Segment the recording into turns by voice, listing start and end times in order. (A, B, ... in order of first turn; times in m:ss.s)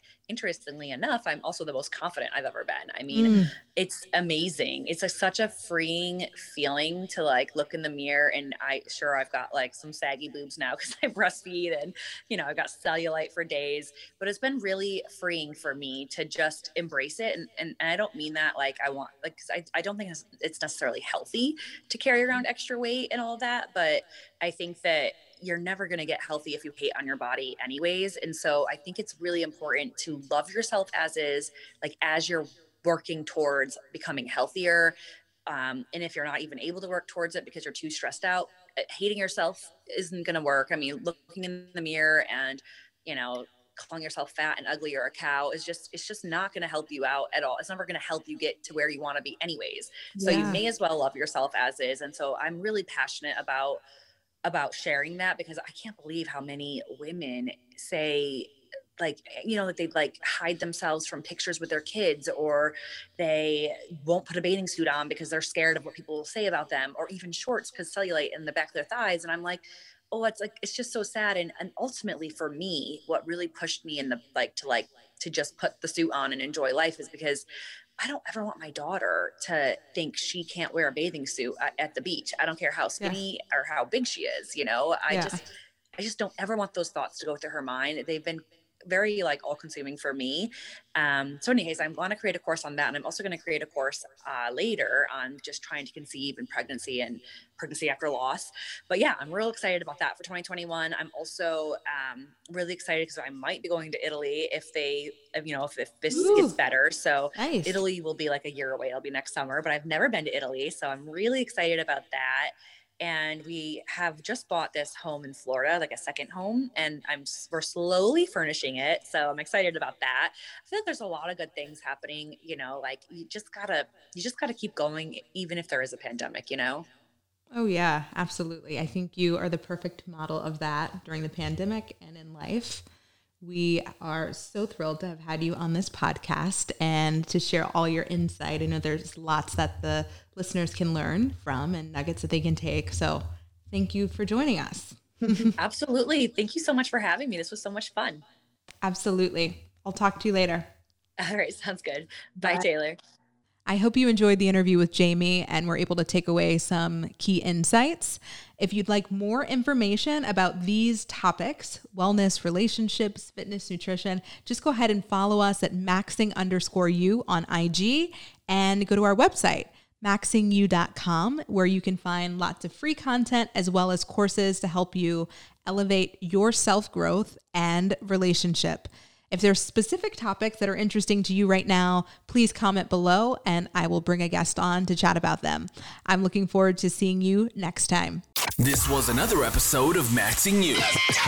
0:00.3-0:35.0 A
0:03.1-0:03.5 B
0:35.5-0:53.8 A
0:50.2-0:50.6 B
0:54.4-1:17.4 A
1:18.0-2:06.9 A
1:25.1-1:25.4 B
1:46.1-1:46.6 B
1:47.4-1:47.8 B
2:07.5-2:12.8 B
2:13.4-2:25.5 B
2:25.6-2:28.2 A
2:28.8-2:30.7 B
2:31.2-2:33.0 A
2:33.7-3:08.2 B
3:08.6-3:11.0 C